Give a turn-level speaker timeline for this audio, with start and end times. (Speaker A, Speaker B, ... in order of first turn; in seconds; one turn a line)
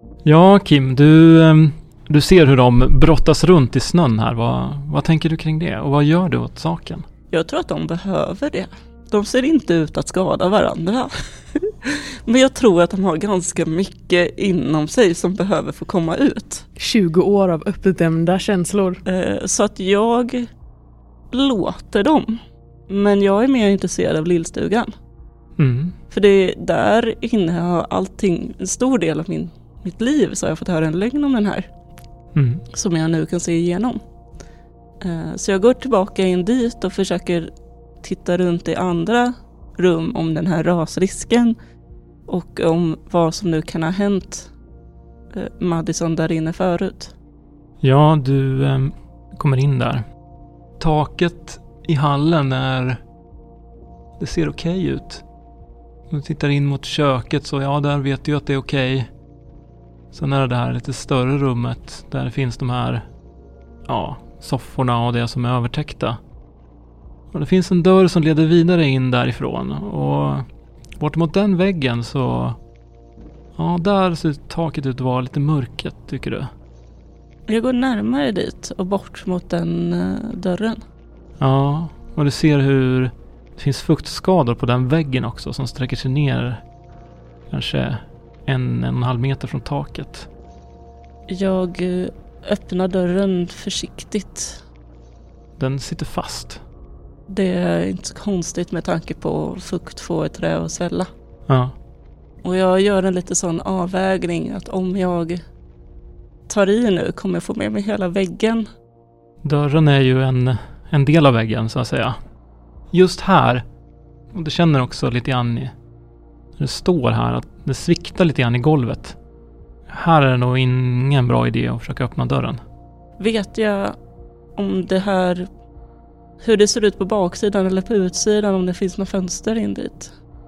Speaker A: 0.2-7.0
Speaker B: 7.3-16.7
Speaker C: 16.8-19.0
Speaker B: 19.1-20.5
Speaker B: 21.3-24.9
Speaker A: 25.6-25.9
Speaker B: 26.1-31.7
Speaker A: 32.3-32.6
Speaker B: 32.7-34.0
Speaker B: 35.0-37.5
Speaker B: 38.0-41.6
Speaker B: 42.3-44.5
Speaker B: 45.3-47.1
Speaker A: 47.8-50.0
Speaker A: 50.8-53.0
Speaker A: 54.2-55.2
Speaker A: 56.1-59.1
Speaker A: 60.1-63.0
Speaker A: 63.9-66.2
Speaker A: 67.3-70.5
Speaker A: 71.0-72.6
Speaker A: 73.6-76.5
Speaker B: 77.5-80.8
Speaker A: 81.4-86.6
Speaker A: 87.5-90.3
Speaker B: 91.3-94.6
Speaker A: 95.6-96.6
Speaker B: 97.3-101.1
Speaker A: 101.5-101.8
Speaker B: 102.4-105.4
Speaker B: 106.5-108.7
Speaker A: 109.4-112.2
Speaker A: 112.9-113.6
Speaker A: 114.3-115.7
Speaker A: 116.6-119.2
Speaker A: 119.9-122.6
Speaker B: 123.2-124.0
Speaker B: 124.6-125.5
Speaker B: 126.4-130.1